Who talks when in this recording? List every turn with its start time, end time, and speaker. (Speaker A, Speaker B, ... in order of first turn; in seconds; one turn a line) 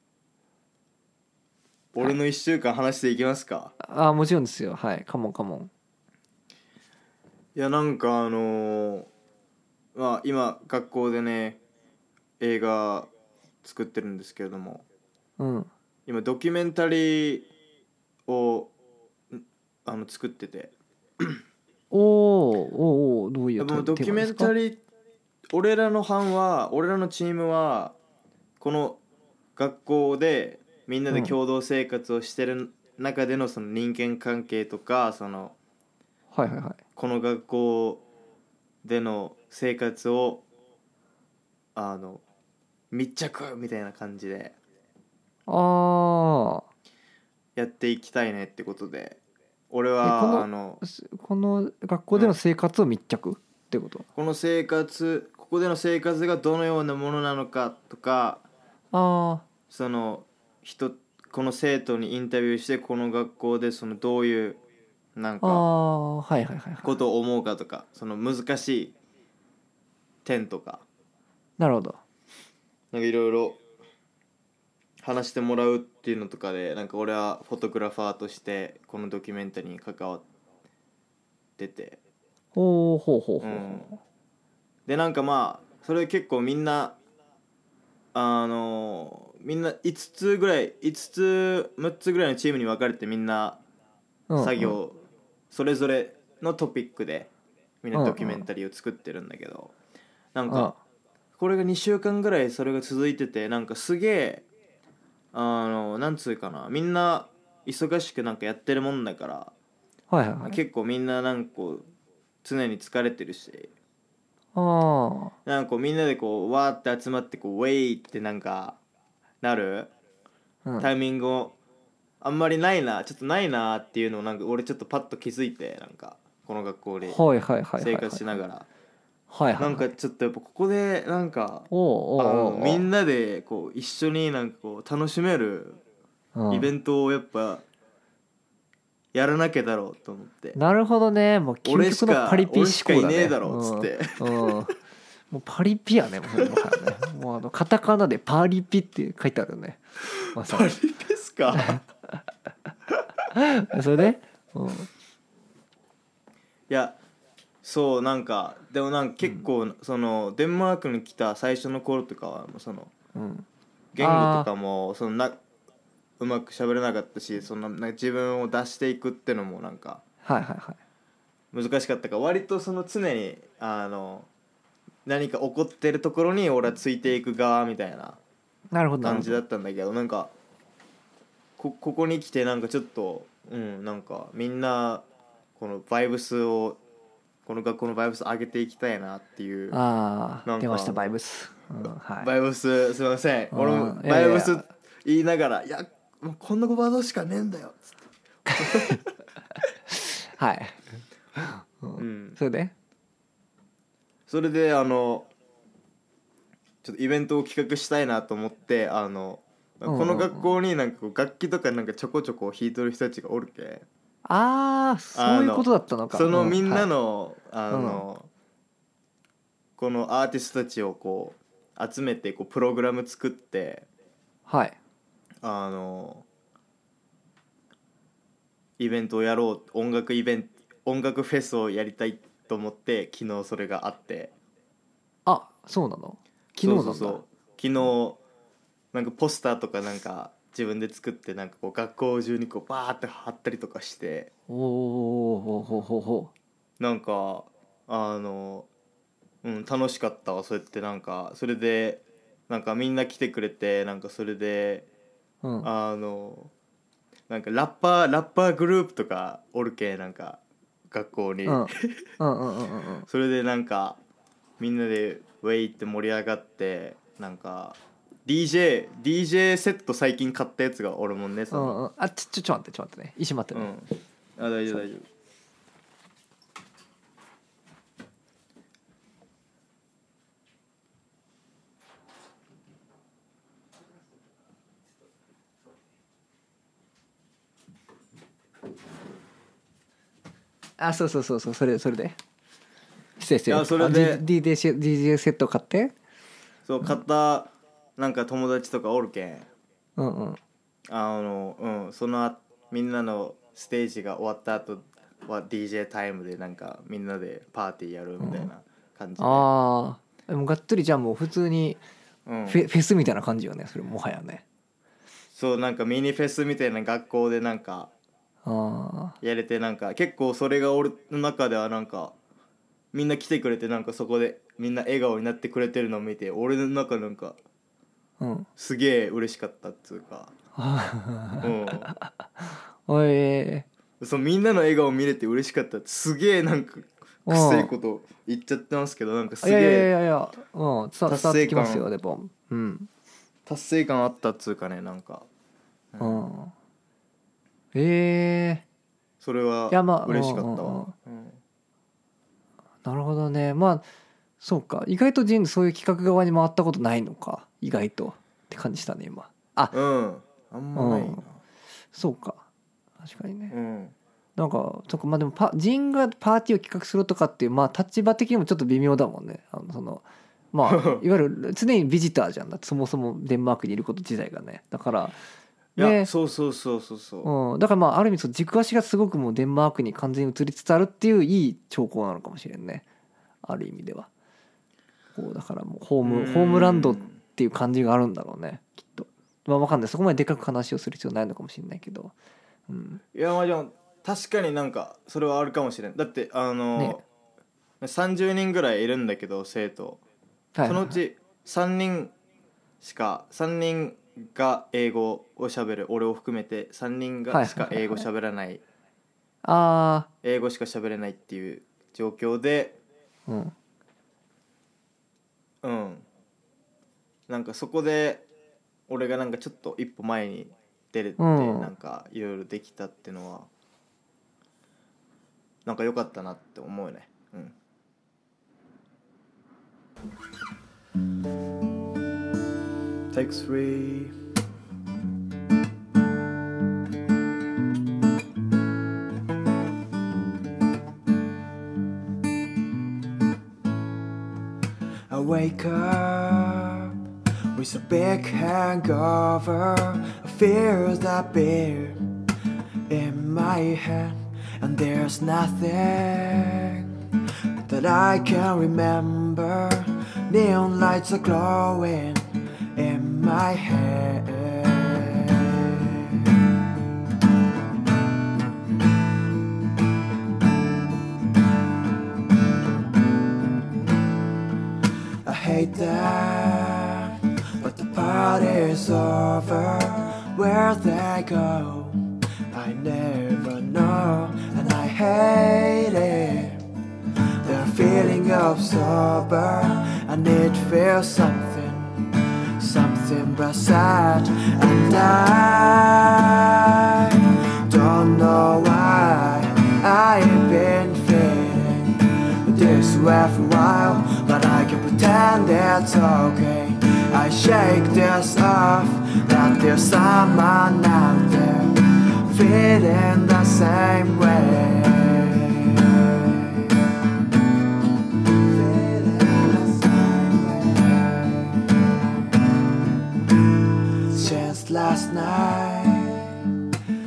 Speaker A: 1.9-3.7
Speaker B: 3.8-5.7
Speaker A: 7.5-9.1
Speaker A: 9.9-11.6
Speaker A: 12.4-13.1
Speaker A: 13.6-14.8
Speaker B: 15.4-15.7
Speaker A: 16.1-17.5
Speaker A: 18.3-18.7
Speaker A: 19.3-21.4
Speaker B: 21.9-24.5
Speaker A: 23.6-24.8
Speaker A: 25.5-28.0
Speaker A: 28.6-29.0
Speaker A: 29.6-35.5
Speaker B: 31.1-31.4
Speaker B: 36.3-36.8
Speaker A: 37.0-38.0
Speaker A: 38.8-40.4
Speaker A: 41.8-42.2
Speaker A: 42.9-44.6
Speaker B: 45.5-46.6
Speaker A: 47.6-50.8
Speaker B: 50.0-54.1
Speaker A: 54.2-58.5
Speaker B: 58.9-59.5
Speaker A: 59.7-64.6
Speaker A: 65.2-65.6
Speaker B: 65.4-67.0
Speaker A: 66.8-68.9
Speaker A: 70.2-70.8
Speaker B: 71.6-72.0
Speaker A: 72.9-73.6
Speaker A: 75.0-80.2
Speaker A: 81.6-82.0
Speaker B: 82.5-84.0
Speaker A: 83.4-83.9
Speaker A: 84.9-87.0
Speaker A: 88.1-93.6
Speaker B: 94.3-94.8
Speaker A: 94.4-97.3
Speaker A: 97.8-99.7
Speaker B: 97.9-98.5
Speaker A: 100.3-100.7
Speaker B: 100.5-100.8
Speaker A: 101.4-104.5
Speaker A: 105.3-109.5
Speaker B: 110.1-110.6
Speaker A: 110.5-111.8
Speaker A: 112.4-113.7
Speaker B: 114.5-115.3
Speaker A: 115.5-118.8
Speaker A: 119.4-119.9
Speaker B: 120.7-120.9
Speaker A: 120.8-121.5
Speaker A: 122.2-127.2
Speaker B: 127.0-128.4
Speaker A: 127.8-128.7
Speaker B: 129.3-129.9
Speaker A: 129.6-135.8
Speaker B: 131.7-132.9
Speaker B: 136.3-136.7
Speaker A: 136.5-137.6
Speaker A: 139.1-140.6
Speaker B: 140.6-144.8
Speaker A: 141.7-144.6
Speaker B: 145.3-150.7
Speaker A: 150.3-151.8
Speaker B: 151.5-152.2
Speaker B: 153.3-154.9
Speaker A: 156.7-157.0
Speaker A: 157.6-162.9
Speaker B: 163.2-163.5
Speaker A: 163.9-165.4
Speaker B: 164.0-164.5
Speaker A: 166.2-170.0
Speaker B: 170.2-170.8
Speaker A: 171.5-174.3
Speaker A: 175.1-178.2
Speaker B: 178.7-179.4
Speaker A: 179.0-180.3
Speaker A: 181.6-186.8
Speaker A: 187.5-189.8
Speaker B: 189.7-192.3
Speaker A: 190.5-191.1
Speaker A: 192.2-197.9
Speaker B: 193.5-194.7
Speaker B: 198.5-199.0
Speaker A: 198.6-199.0
Speaker B: 199.9-200.8
Speaker B: 201.4-202.7
Speaker A: 202.0-202.4
Speaker A: 204.3-205.3
Speaker A: 206.8-213.8
Speaker B: 209.9-210.5
Speaker B: 214.2-216.9
Speaker A: 215.2-218.3
Speaker B: 217.7-218.1
Speaker A: 219.8-223.9
Speaker B: 224.5-224.8
Speaker A: 225.4-226.3
Speaker A: 228.8-234.3
Speaker B: 235.3-237.2
Speaker A: 236.6-238.2
Speaker A: 238.9-244.3
Speaker B: 244.5-246.3
Speaker A: 246.8-248.7
Speaker A: 249.4-254.9
Speaker B: 255.4-255.7
Speaker A: 255.6-256.5
Speaker A: 257.3-260.4
Speaker A: 260.9-262.0
Speaker B: 261.5-263.1
Speaker A: 263.1-264.0
Speaker A: 264.6-271.8
Speaker B: 271.5-273.7
Speaker A: 273.5-275.1
Speaker B: 290.8-292.2
Speaker B: 293.2-295.9
Speaker A: 293.5-294.2
Speaker A: 296.7-299.5
Speaker B: 300.0-300.4
Speaker A: 300.9-309.5
Speaker B: 308.2-308.5
Speaker B: 309.2-311.8
Speaker A: 312.3-312.6
Speaker B: 312.5-314.4
Speaker A: 315.3-317.9
Speaker B: 318.4-319.2
Speaker A: 319.2-322.2
Speaker A: 322.9-327.4
Speaker B: 328.2-328.5
Speaker A: 328.6-330.3
Speaker B: 330.6-333.7
Speaker A: 331.4-331.9
Speaker A: 334.0-339.9
Speaker B: 337.3-337.7
Speaker B: 339.4-342.9
Speaker A: 341.1-341.9
Speaker A: 343.5-345.3
Speaker A: 345.9-346.2
Speaker B: 346.0-346.5
Speaker B: 347.7-348.6
Speaker A: 349.2-351.4
Speaker B: 349.7-350.9
Speaker B: 352.9-353.9
Speaker B: 354.4-359.8
Speaker A: 359.7-361.4
Speaker B: 360.8-361.2
Speaker B: 361.9-362.4
Speaker B: 363.0-363.5
Speaker A: 363.5-363.9
Speaker B: 364.4-375.2
Speaker A: 370.6-371.0
Speaker A: 375.8-377.3
Speaker B: 375.8-376.1
Speaker B: 377.2-382.8
Speaker B: 383.4-384.1
Speaker B: 385.1-392.1
Speaker A: 386.0-387.2
Speaker B: 392.7-393.0
Speaker A: 393.1-397.0
Speaker B: 396.8-397.0
Speaker A: 397.8-400.0
Speaker B: 400.6-401.0
Speaker A: 400.6-402.1
Speaker A: 402.8-408.6
Speaker B: 407.3-408.1
Speaker B: 409.4-410.1
Speaker A: 410.2-412.8
Speaker B: 413.3-413.6
Speaker A: 415.6-416.1
Speaker A: 417.3-418.2
Speaker A: 418.9-423.5
Speaker B: 421.2-421.7
Speaker A: 425.6-427.6
Speaker A: 433.1-434.2
Speaker C: 445.1-446.9
Speaker C: 447.6-452.0
Speaker C: 452.9-456.9
Speaker A: 453.3-453.6
Speaker C: 457.7-462.2
Speaker A: 458.3-458.6
Speaker A: 461.4-461.6
Speaker C: 462.8-465.2
Speaker C: 475.3-482.0
Speaker C: 482.5-486.6
Speaker C: 487.4-515.9
Speaker A: 487.8-488.2
Speaker C: 519.2-520.7
Speaker C: 524.1-526.5